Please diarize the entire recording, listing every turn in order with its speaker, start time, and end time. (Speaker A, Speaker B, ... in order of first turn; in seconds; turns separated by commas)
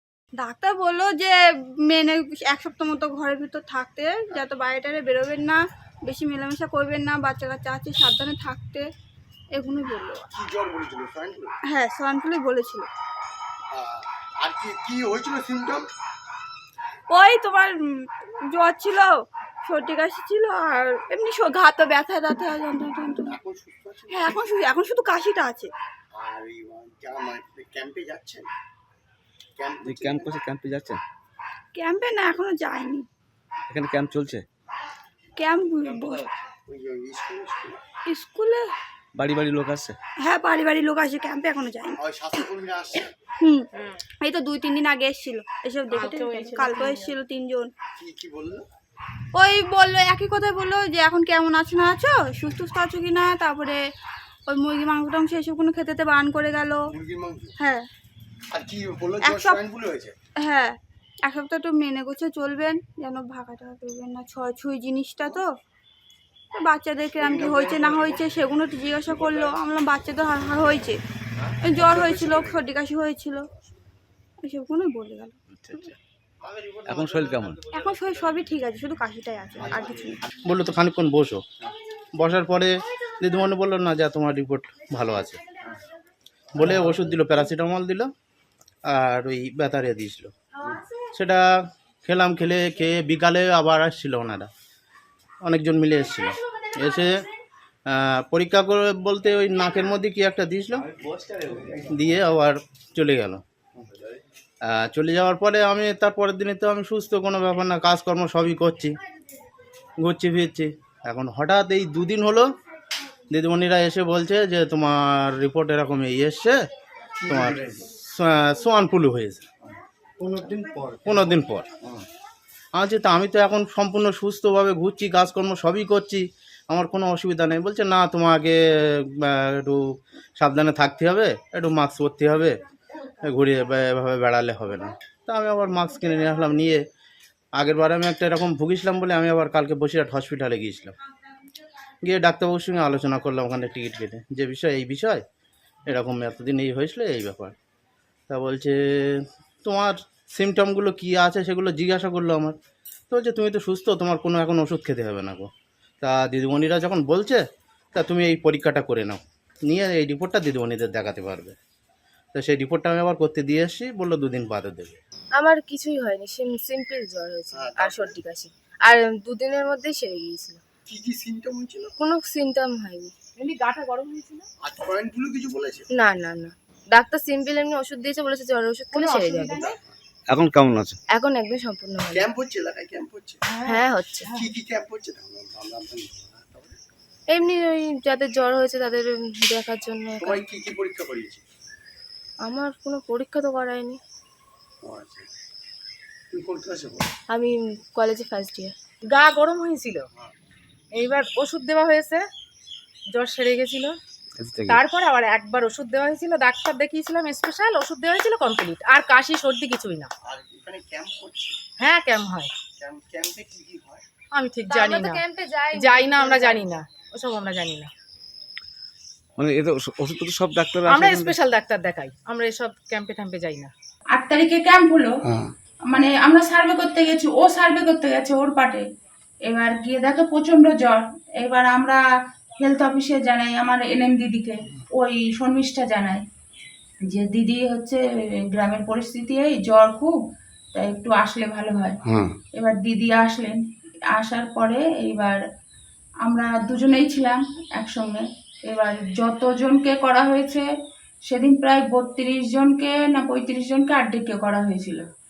Speaker A: 0.4-8.8, Speaker A: 9.5-10.3, Speaker B: 10.3-11.5, Speaker A: 11.7-12.9, Speaker B: 13.7-15.8, Speaker A: 17.1-23.3, Speaker B: 23.2-24.4, Speaker A: 24.1-25.7, Speaker B: 26.1-28.5, Speaker B: 29.6-30.3, Speaker C: 29.8-31.0, Speaker A: 31.7-33.0, Speaker C: 33.7-34.4, Speaker A: 35.4-36.2, Speaker B: 36.6-37.8, Speaker A: 38.0-38.7, Speaker C: 39.1-40.0, Speaker A: 40.2-42.5, Speaker B: 42.0-43.1, Speaker A: 43.4-43.7, Speaker A: 44.2-47.7, Speaker D: 45.9-47.0, Speaker B: 48.0-48.6, Speaker A: 49.3-53.8, Speaker A: 54.5-56.9, Speaker B: 56.9-57.5, Speaker A: 57.6-57.9, Speaker B: 58.5-60.1, Speaker A: 59.2-59.6, Speaker A: 60.4-60.7, Speaker A: 61.2-65.5, Speaker A: 66.5-71.0, Speaker B: 67.2-68.2, Speaker A: 71.6-73.5, Speaker B: 71.8-72.5, Speaker A: 74.4-75.9, Speaker C: 75.6-75.9, Speaker E: 76.5-77.7, Speaker C: 76.8-77.7, Speaker A: 77.7-80.2, Speaker E: 80.4-81.4, Speaker E: 82.2-85.4, Speaker E: 86.5-88.1, Speaker E: 88.9-90.3, Speaker E: 91.0-91.4, Speaker E: 92.0-94.5, Speaker E: 95.4-97.3, Speaker E: 97.9-100.9, Speaker E: 101.9-103.4, Speaker E: 104.7-109.0, Speaker E: 110.0-112.5, Speaker E: 113.3-116.6, Speaker B: 117.2-117.8, Speaker E: 117.3-119.5, Speaker E: 121.0-121.7, Speaker E: 122.8-132.5, Speaker E: 133.2-136.8, Speaker E: 137.6-140.9, Speaker E: 142.0-145.2, Speaker E: 145.9-147.5, Speaker E: 148.3-152.5, Speaker E: 153.1-155.5, Speaker E: 156.0-157.4, Speaker E: 157.9-161.5, Speaker E: 162.3-165.0, Speaker F: 165.4-170.6, Speaker B: 167.5-168.2, Speaker B: 170.9-171.9, Speaker F: 172.0-173.1, Speaker D: 173.4-174.5, Speaker B: 174.6-175.8, Speaker F: 175.9-179.7, Speaker D: 178.9-179.8, Speaker C: 180.3-181.0, Speaker F: 181.1-182.3, Speaker B: 182.1-183.4, Speaker D: 183.5-184.3, Speaker F: 183.6-184.3, Speaker B: 184.3-186.7, Speaker F: 187.3-190.4, Speaker B: 190.2-191.4, Speaker F: 192.4-194.0, Speaker B: 194.8-195.3, Speaker B: 196.3-197.1, Speaker F: 197.3-198.7, Speaker D: 199.1-200.0, Speaker D: 200.9-202.2, Speaker D: 203.1-203.9, Speaker C: 204.4-204.8, Speaker D: 204.7-210.1, Speaker B: 210.2-211.6, Speaker D: 211.8-212.5, Speaker B: 212.8-214.0, Speaker D: 214.3-217.9, Speaker F: 214.7-216.6, Speaker C: 219.4-221.3, Speaker D: 220.9-223.7, Speaker G: 224.1-225.2, Speaker G: 225.9-228.8, Speaker G: 229.5-232.0, Speaker G: 232.6-236.2, Speaker G: 237.1-240.2, Speaker G: 240.7-242.0, Speaker G: 242.5-243.6, Speaker G: 244.1-245.4, Speaker G: 246.2-250.7, Speaker G: 251.2-255.1